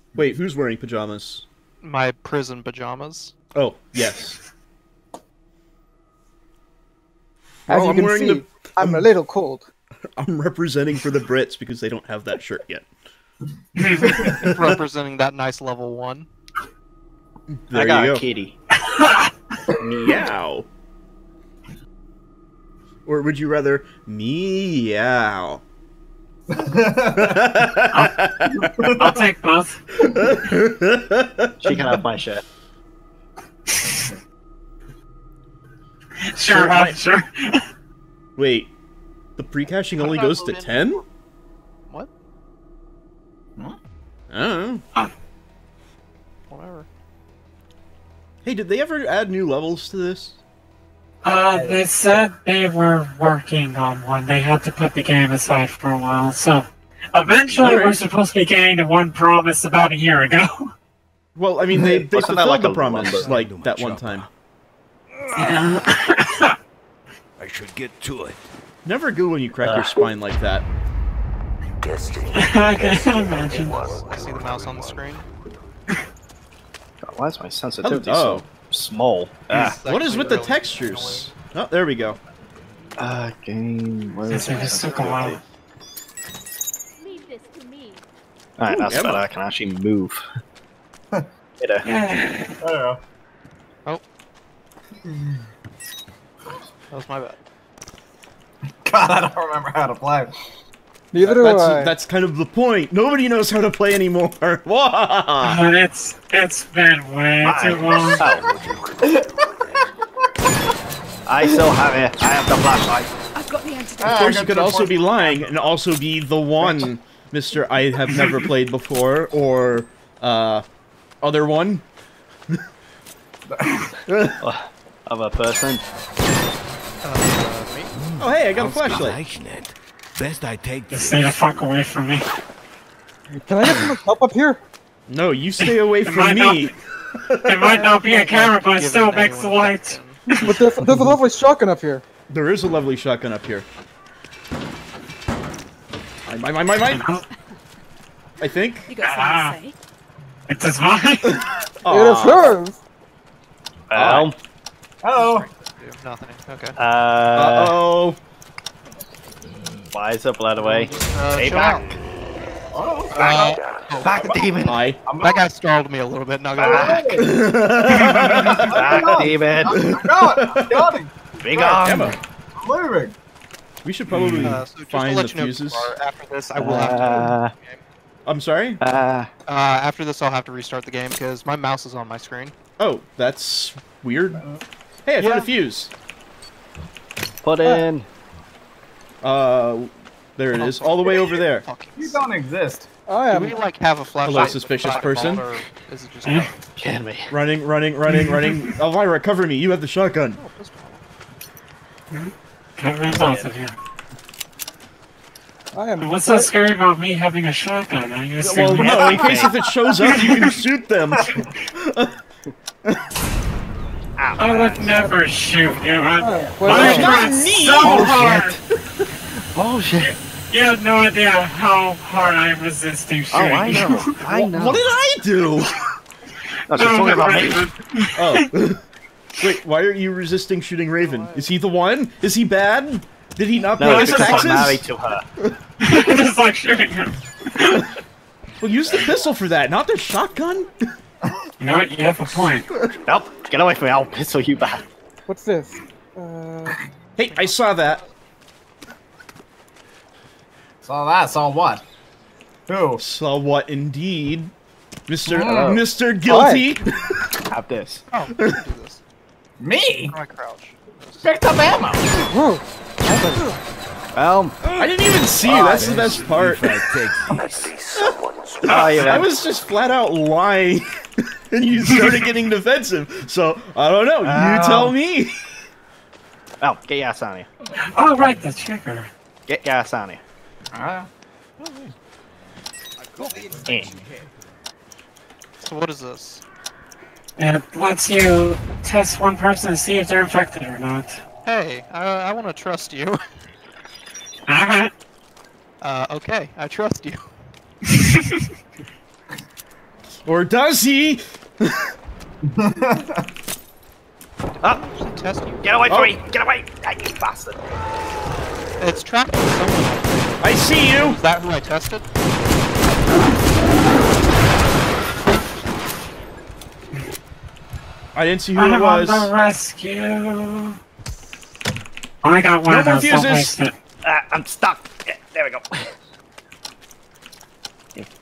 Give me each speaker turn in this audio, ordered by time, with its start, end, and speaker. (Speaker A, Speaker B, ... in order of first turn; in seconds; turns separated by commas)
Speaker A: 0.1-1.4, Speaker B: 1.8-3.4, Speaker A: 3.5-4.4, Speaker A: 7.7-9.1, Speaker C: 7.7-9.7, Speaker A: 10.2-12.9, Speaker D: 13.8-14.2, Speaker B: 14.2-16.3, Speaker A: 14.2-14.7, Speaker A: 17.5-18.2, Speaker E: 17.7-18.6, Speaker D: 18.9-19.3, Speaker A: 20.0-20.7, Speaker A: 23.1-25.6, Speaker F: 26.5-27.5, Speaker A: 27.2-28.9, Speaker F: 28.5-29.3, Speaker D: 28.9-29.8, Speaker A: 30.0-32.0, Speaker E: 31.6-32.4, Speaker D: 36.3-37.6, Speaker A: 36.5-37.0, Speaker A: 38.4-38.7, Speaker A: 39.4-41.0, Speaker B: 39.9-41.0, Speaker A: 44.3-44.8, Speaker B: 46.5-46.9, Speaker A: 48.4-50.4, Speaker D: 51.2-60.7, Speaker F: 51.5-51.8, Speaker A: 57.6-58.0, Speaker A: 61.4-64.3, Speaker E: 61.7-63.4, Speaker G: 63.0-64.3, Speaker D: 65.3-66.5, Speaker G: 67.4-68.5, Speaker A: 68.8-70.7, Speaker E: 69.6-70.0, Speaker G: 71.8-72.9, Speaker D: 72.3-73.8, Speaker B: 73.5-75.3, Speaker G: 73.8-74.9, Speaker E: 77.0-79.8, Speaker A: 77.8-78.5, Speaker B: 79.5-81.3, Speaker A: 79.8-82.2, Speaker E: 83.0-85.4, Speaker D: 84.3-85.4, Speaker H: 87.3-88.0, Speaker E: 88.6-90.2, Speaker A: 88.7-89.2, Speaker E: 91.6-91.9, Speaker D: 91.8-92.5, Speaker F: 92.6-93.0, Speaker F: 95.1-95.4, Speaker B: 96.9-97.4, Speaker F: 98.8-100.3, Speaker C: 101.1-102.0, Speaker A: 101.2-105.6, Speaker D: 105.4-108.2, Speaker E: 107.4-108.5, Speaker G: 108.1-109.2, Speaker F: 109.0-109.9, Speaker E: 111.3-113.2, Speaker H: 113.5-114.1, Speaker F: 114.0-115.7, Speaker A: 114.0-120.7, Speaker A: 121.2-121.8, Speaker F: 123.5-123.9, Speaker A: 124.1-124.4, Speaker E: 124.4-125.8, Speaker B: 127.0-127.9, Speaker G: 128.0-131.4, Speaker A: 128.2-129.2, Speaker D: 130.9-132.2, Speaker C: 133.4-134.6, Speaker A: 135.1-137.8, Speaker D: 135.6-136.7, Speaker D: 137.4-140.6, Speaker B: 137.6-140.2, Speaker C: 140.4-142.0, Speaker A: 142.3-143.7, Speaker A: 146.3-147.1, Speaker D: 146.9-147.2, Speaker A: 148.4-149.0, Speaker H: 148.9-149.7, Speaker D: 149.0-149.6, Speaker D: 150.5-151.3, Speaker A: 151.2-152.6, Speaker C: 151.9-152.8, Speaker E: 153.9-154.4, Speaker A: 153.9-154.3, Speaker F: 155.0-155.5, Speaker B: 155.2-156.8, Speaker E: 156.8-157.8, Speaker A: 157.3-158.2, Speaker E: 159.9-162.0, Speaker B: 160.6-161.8, Speaker F: 162.7-163.3, Speaker B: 163.1-164.1, Speaker E: 163.3-165.4, Speaker A: 164.6-165.0, Speaker B: 165.2-167.2, Speaker F: 166.6-167.4, Speaker E: 166.6-167.2, Speaker A: 167.2-171.0, Speaker F: 167.9-171.3, Speaker E: 168.7-169.8, Speaker E: 171.4-172.2, Speaker A: 171.5-172.2, Speaker F: 172.6-173.2, Speaker A: 173.8-175.9, Speaker D: 174.1-174.5, Speaker B: 174.4-177.8, Speaker E: 176.6-177.5, Speaker A: 178.3-178.8, Speaker E: 178.8-179.3, Speaker B: 179.5-182.6, Speaker A: 182.8-184.4, Speaker F: 184.3-184.6, Speaker A: 185.1-185.9, Speaker B: 185.2-185.5, Speaker E: 187.4-188.1, Speaker C: 187.6-187.9, Speaker A: 189.2-191.7, Speaker B: 190.6-192.2, Speaker F: 192.0-192.9, Speaker C: 193.1-193.6, Speaker B: 193.3-196.6, Speaker A: 194.2-195.4, Speaker E: 196.8-197.3, Speaker A: 197.3-200.4, Speaker D: 198.1-198.7, Speaker B: 200.4-201.0, Speaker D: 202.1-203.8, Speaker E: 203.1-203.5, Speaker C: 205.7-206.5, Speaker D: 206.0-209.5, Speaker A: 208.4-212.2, Speaker E: 208.8-209.6, Speaker D: 210.1-210.5, Speaker F: 211.2-211.4, Speaker E: 214.2-215.1, Speaker D: 214.4-218.6, Speaker C: 216.2-216.9, Speaker A: 216.7-218.6, Speaker E: 216.7-218.5, Speaker E: 219.4-220.2, Speaker D: 220.5-224.1, Speaker E: 223.3-224.9, Speaker A: 224.3-225.7, Speaker E: 226.7-227.7, Speaker D: 226.7-228.4, Speaker A: 228.2-228.8, Speaker A: 229.4-234.9, Speaker B: 231.0-231.5, Speaker E: 233.8-235.2, Speaker D: 233.8-234.7, Speaker D: 235.8-237.8, Speaker A: 238.6-240.8, Speaker D: 241.6-242.7, Speaker A: 242.4-242.9, Speaker E: 243.1-244.8, Speaker C: 245.3-246.8, Speaker A: 247.2-248.0, Speaker B: 247.2-247.9, Speaker F: 250.8-251.8, Speaker F: 252.7-253.0, Speaker A: 253.0-254.5, Speaker A: 255.1-256.9, Speaker F: 255.3-255.7, Speaker E: 255.5-255.8, Speaker C: 255.6-256.7, Speaker E: 257.5-258.0, Speaker B: 258.1-259.0, Speaker F: 259.6-260.1, Speaker B: 259.9-261.3, Speaker F: 261.2-262.1, Speaker C: 262.2-263.6, Speaker E: 264.1-264.6, Speaker G: 264.6-264.9, Speaker A: 264.8-266.8, Speaker E: 265.4-266.0, Speaker G: 265.5-268.1, Speaker A: 267.9-275.4, Speaker E: 268.7-269.3, Speaker D: 268.7-269.3, Speaker E: 274.2-274.9, Speaker E: 276.6-277.5, Speaker D: 277.8-279.1, Speaker E: 279.5-280.2, Speaker F: 280.7-281.1, Speaker B: 281.6-281.9, Speaker G: 283.2-283.5, Speaker E: 283.7-284.0, Speaker B: 285.6-286.4, Speaker D: 287.4-291.2, Speaker B: 291.4-293.2, Speaker D: 294.5-294.9, Speaker B: 295.8-297.2, Speaker A: 300.3-301.9, Speaker F: 302.5-303.3, Speaker B: 304.6-305.6, Speaker E: 305.6-307.6, Speaker A: 305.9-306.2, Speaker B: 308.8-312.1, Speaker A: 310.4-311.2, Speaker A: 318.1-319.3, Speaker D: 318.6-320.8, Speaker D: 322.2-323.7, Speaker A: 322.7-323.6, Speaker E: 324.0-325.9